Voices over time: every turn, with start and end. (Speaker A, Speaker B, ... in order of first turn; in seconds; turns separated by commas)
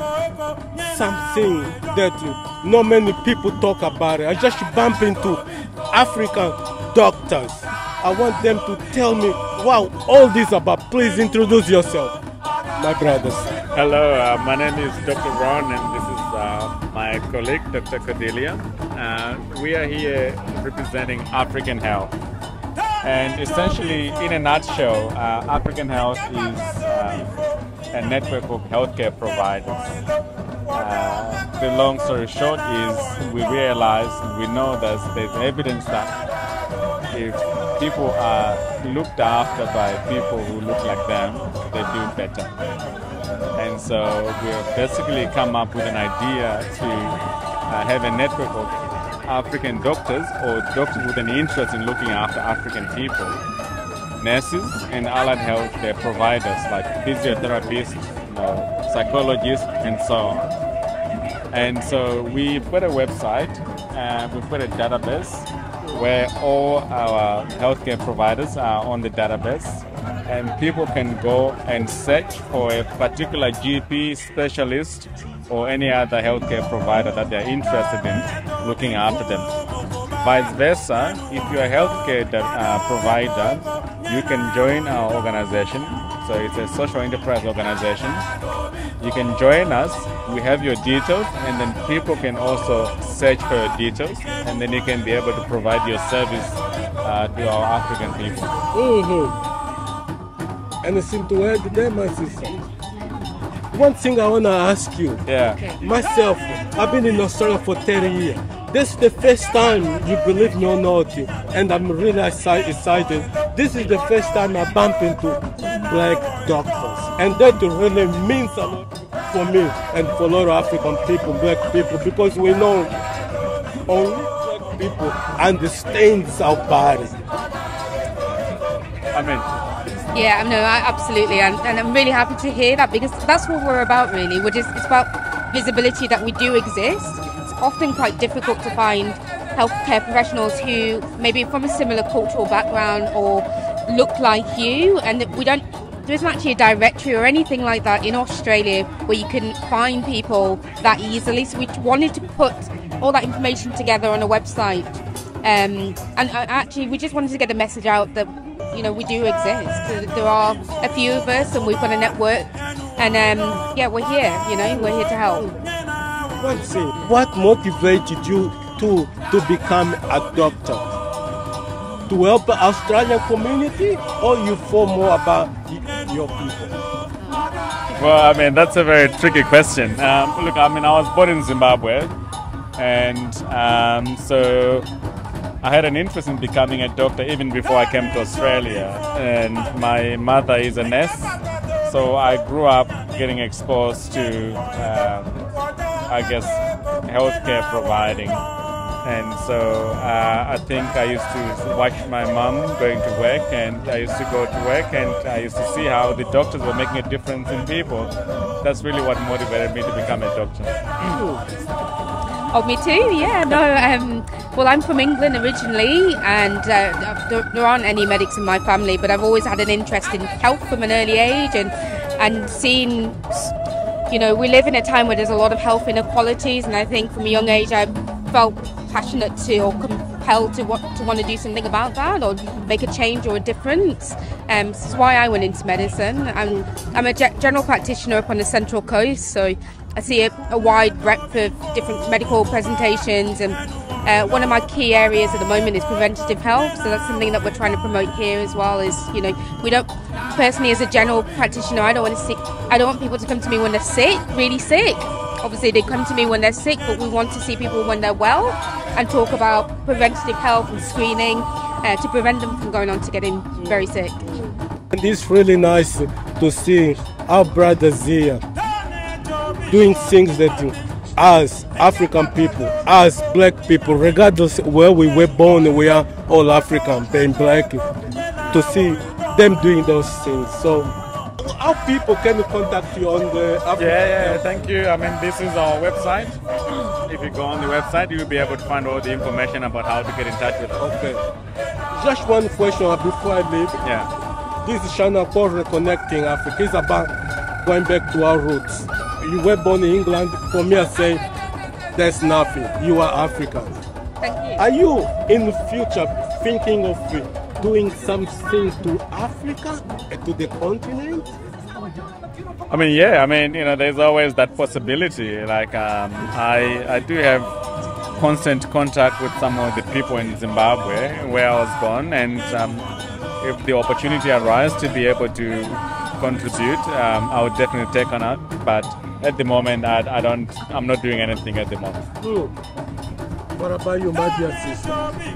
Speaker A: 0.8-12.2, Speaker A: 12.8-13.5, Speaker B: 13.7-22.1, Speaker B: 23.0-27.3, Speaker B: 27.9-30.0, Speaker B: 30.7-36.1, Speaker B: 37.1-42.5, Speaker B: 43.6-48.7, Speaker B: 49.2-53.4, Speaker B: 54.2-60.5, Speaker B: 61.5-79.6, Speaker B: 80.2-88.3, Speaker B: 89.0-98.6, Speaker A: 98.7-99.4, Speaker A: 100.8-102.6, Speaker A: 103.7-122.9, Speaker B: 105.3-105.6, Speaker A: 123.9-127.2, Speaker B: 129.1-129.5, Speaker C: 130.1-165.5, Speaker A: 166.4-170.9, Speaker A: 172.1-176.8, Speaker B: 177.9-182.1, Speaker B: 182.8-184.9, Speaker B: 185.6-195.4, Speaker B: 196.1-198.4, Speaker B: 199.0-211.2, Speaker A: 211.1-211.6, Speaker C: 212.5-223.5, Speaker C: 224.1-264.3, Speaker A: 264.9-268.4, Speaker A: 269.7-277.9, Speaker A: 278.5-284.4, Speaker B: 283.8-290.9, Speaker A: 290.8-291.2, Speaker A: 291.9-293.8, Speaker B: 293.8-294.1, Speaker A: 294.6-297.1, Speaker A: 297.6-301.2, Speaker A: 301.9-303.8, Speaker C: 304.2-304.6, Speaker A: 304.6-311.3, Speaker B: 312.7-317.5, Speaker B: 318.2-322.9, Speaker B: 323.4-332.1, Speaker A: 332.2-332.5, Speaker A: 333.6-335.1